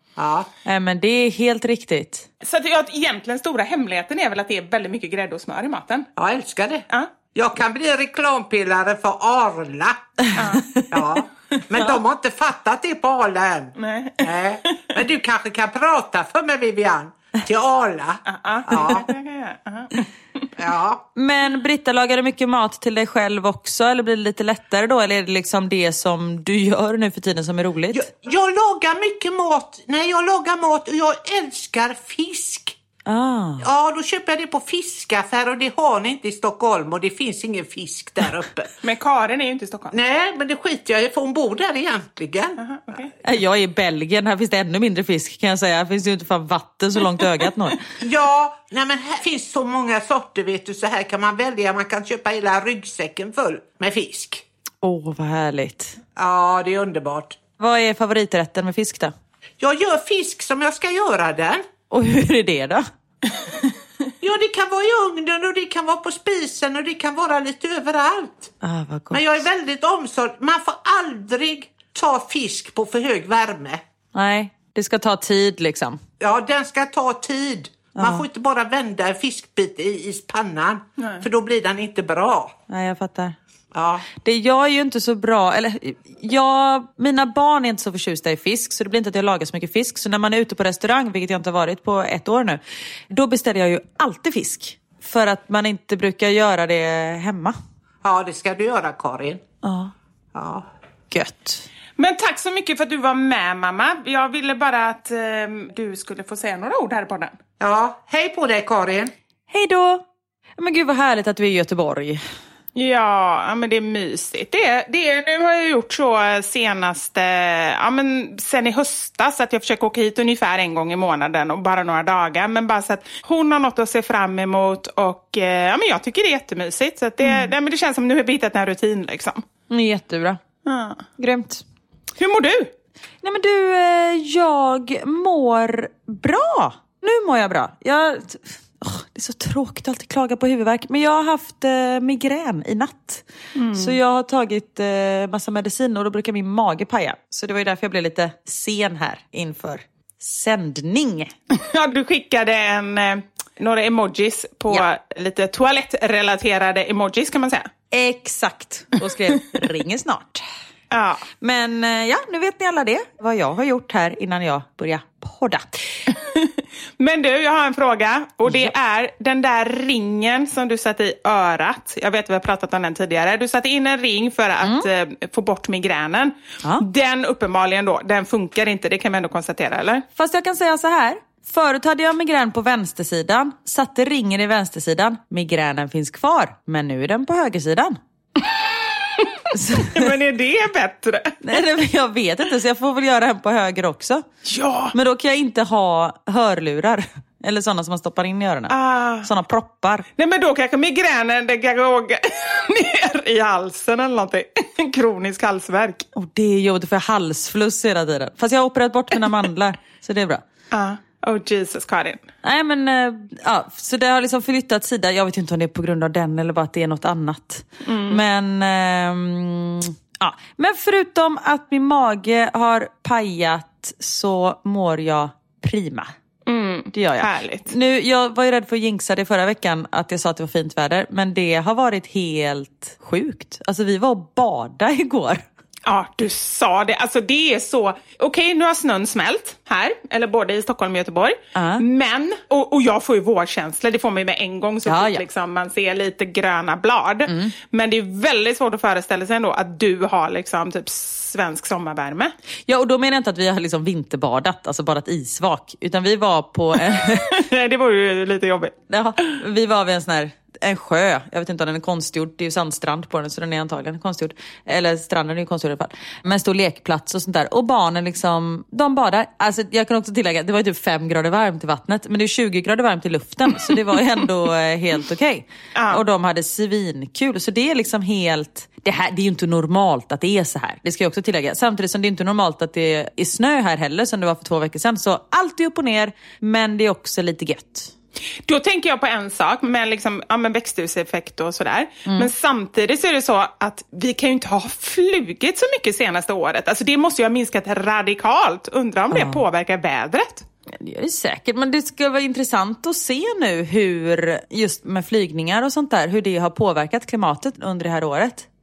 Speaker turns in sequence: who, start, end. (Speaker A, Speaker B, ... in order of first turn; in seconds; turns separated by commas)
Speaker A: 0.2-0.5, Speaker B: 0.7-2.3, Speaker C: 2.4-6.1, Speaker A: 6.2-19.1, Speaker C: 10.4-10.7, Speaker C: 13.8-14.9, Speaker C: 18.3-20.1, Speaker A: 20.6-21.1, Speaker B: 21.2-28.0, Speaker A: 27.9-32.8, Speaker B: 33.1-33.6, Speaker A: 33.6-38.7, Speaker C: 38.8-40.0, Speaker A: 39.9-42.6, Speaker C: 42.6-43.1, Speaker B: 43.2-47.8, Speaker A: 48.0-54.4, Speaker B: 54.8-56.0, Speaker A: 56.2-57.4, Speaker B: 57.6-59.1, Speaker A: 59.6-61.6, Speaker B: 61.9-62.9, Speaker A: 64.2-68.5, Speaker B: 68.6-69.4, Speaker A: 69.1-73.8, Speaker B: 74.1-76.0, Speaker A: 76.2-82.5, Speaker B: 78.0-78.2, Speaker B: 82.7-83.4, Speaker A: 83.7-84.1, Speaker B: 84.2-97.6, Speaker A: 98.0-99.4, Speaker B: 99.6-99.9, Speaker A: 100.3-100.7, Speaker B: 101.1-101.7, Speaker C: 102.0-107.4, Speaker A: 107.6-109.1, Speaker B: 109.5-110.0, Speaker B: 110.6-112.2, Speaker C: 112.8-129.4, Speaker B: 127.2-127.5, Speaker B: 129.7-130.4, Speaker C: 130.7-131.0, Speaker B: 131.2-131.6, Speaker C: 132.2-132.7, Speaker B: 133.2-143.2, Speaker C: 143.6-144.0, Speaker B: 143.8-151.3, Speaker C: 151.5-157.7, Speaker B: 157.9-160.4, Speaker C: 160.9-161.2, Speaker B: 161.4-166.0, Speaker C: 166.1-180.1, Speaker B: 168.5-168.7, Speaker B: 180.2-188.0, Speaker C: 188.4-191.4, Speaker B: 189.5-189.9, Speaker B: 191.4-194.2, Speaker C: 194.5-194.9, Speaker B: 194.9-200.1, Speaker C: 198.7-199.3, Speaker C: 200.2-206.1, Speaker B: 206.2-210.4, Speaker C: 210.7-212.2, Speaker B: 212.4-226.1, Speaker C: 217.8-218.2, Speaker C: 226.5-227.7, Speaker B: 226.9-235.4, Speaker C: 235.9-252.3, Speaker B: 241.6-241.8, Speaker B: 244.9-245.2, Speaker B: 247.3-247.5, Speaker B: 252.7-257.4, Speaker C: 257.2-258.8, Speaker B: 258.9-287.9, Speaker C: 275.8-276.0, Speaker C: 288.5-300.5, Speaker B: 299.1-299.4, Speaker B: 300.7-308.5